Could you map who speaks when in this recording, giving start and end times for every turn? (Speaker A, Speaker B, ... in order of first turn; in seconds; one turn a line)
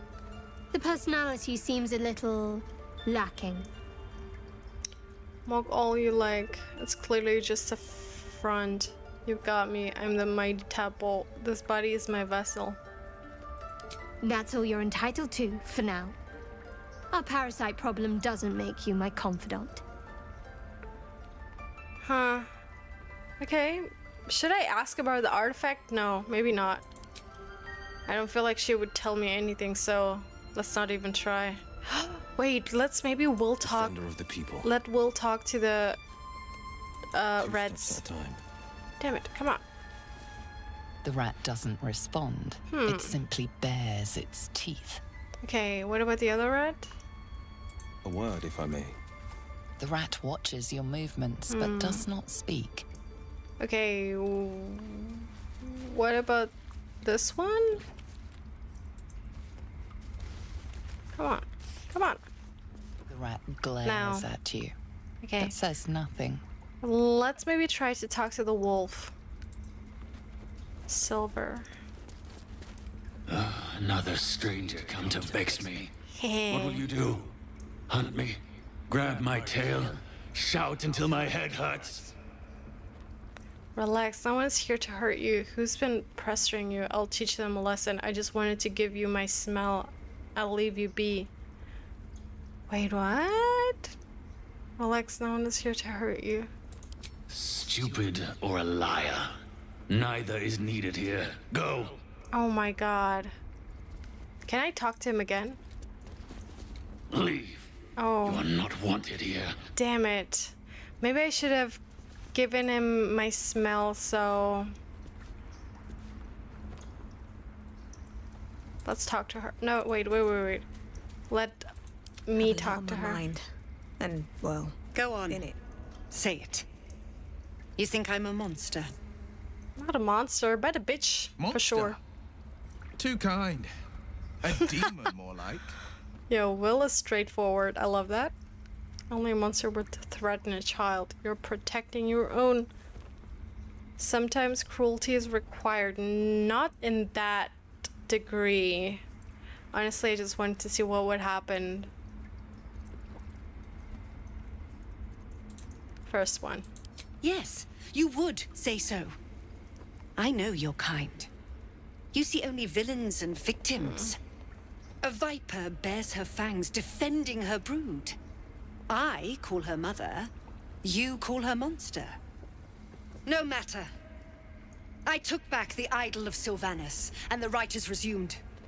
Speaker A: 0.7-3.7
Speaker B: 5.5-12.8
Speaker A: 14.2-16.1
Speaker A: 17.1-19.8
Speaker B: 22.0-22.5
Speaker B: 23.4-26.9
Speaker B: 28.1-34.0
Speaker C: 33.6-34.7
Speaker B: 34.6-36.0
Speaker B: 37.1-38.0
Speaker C: 37.4-38.4
Speaker B: 39.0-39.6
Speaker D: 41.0-45.0
Speaker B: 42.7-43.1
Speaker B: 45.4-46.9
Speaker C: 48.0-48.9
Speaker D: 49.8-52.9
Speaker B: 51.5-52.0
Speaker B: 53.6-57.8
Speaker B: 61.1-62.2
Speaker D: 63.1-64.7
Speaker B: 63.8-64.3
Speaker B: 65.2-65.5
Speaker D: 65.4-66.4
Speaker B: 66.8-69.1
Speaker B: 70.9-71.7
Speaker E: 73.3-75.9
Speaker B: 76.1-76.8
Speaker E: 76.5-77.3
Speaker E: 77.9-78.4
Speaker E: 78.9-82.1
Speaker B: 83.8-91.3
Speaker B: 92.7-93.9
Speaker B: 94.8-96.5
Speaker E: 97.3-99.4
Speaker E: 99.9-102.0
Speaker B: 102.3-103.3
Speaker B: 104.5-105.6
Speaker E: 107.1-107.7
Speaker B: 108.0-108.4
Speaker E: 108.2-109.6
Speaker B: 109.8-111.8
Speaker B: 112.3-114.7
Speaker B: 118.8-120.7
Speaker B: 121.3-121.7
Speaker B: 122.2-123.2
Speaker F: 122.4-123.5
Speaker F: 124.0-125.6
Speaker G: 124.9-125.4
Speaker G: 126.1-126.7
Speaker G: 127.8-128.9
Speaker B: 129.8-132.0
Speaker H: 131.4-132.0
Speaker H: 133.0-133.7
Speaker H: 134.4-135.7
Speaker B: 136.3-138.3
Speaker B: 139.1-142.7
Speaker B: 144.0-149.0
Speaker B: 149.7-151.9
Speaker B: 156.1-156.7
Speaker G: 157.2-159.2
Speaker G: 160.2-161.3
Speaker G: 162.1-164.2
Speaker B: 163.8-164.1
Speaker G: 165.0-168.2
Speaker G: 168.9-170.3
Speaker G: 170.8-172.2
Speaker G: 173.2-173.9
Speaker G: 175.1-178.4